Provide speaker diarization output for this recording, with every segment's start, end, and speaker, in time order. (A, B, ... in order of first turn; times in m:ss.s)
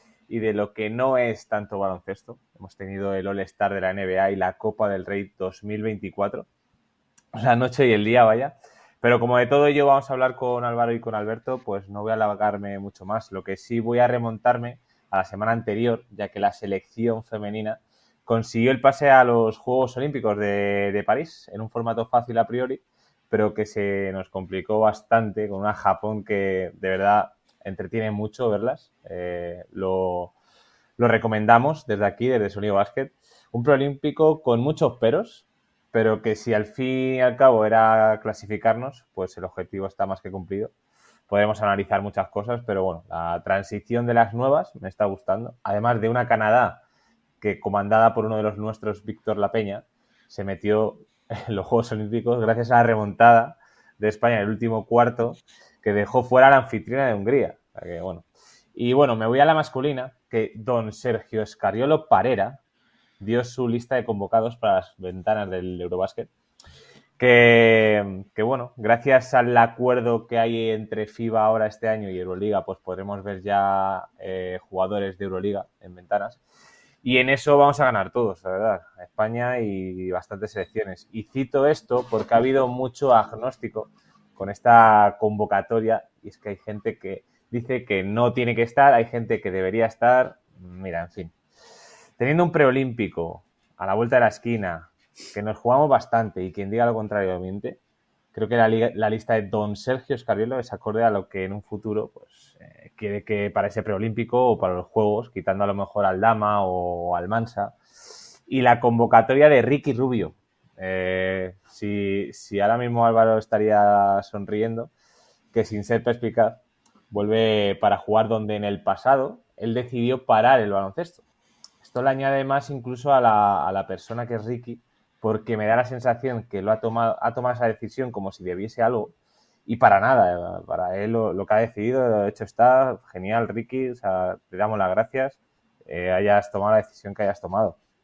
0:00.3-0:06.5 A
0:07.3-0:30.3 A
0:31.0-0:40.7 A
0:41.3-0:46.8 A
0:47.4-1:02.6 A
1:03.2-1:06.3 A
1:07.2-1:16.4 A
1:17.0-1:31.3 A
1:32.2-1:37.8 A
1:38.3-1:47.8 A
1:48.5-1:54.9 A
1:55.5-2:01.2 A
2:01.8-2:09.1 A
2:09.6-2:17.8 A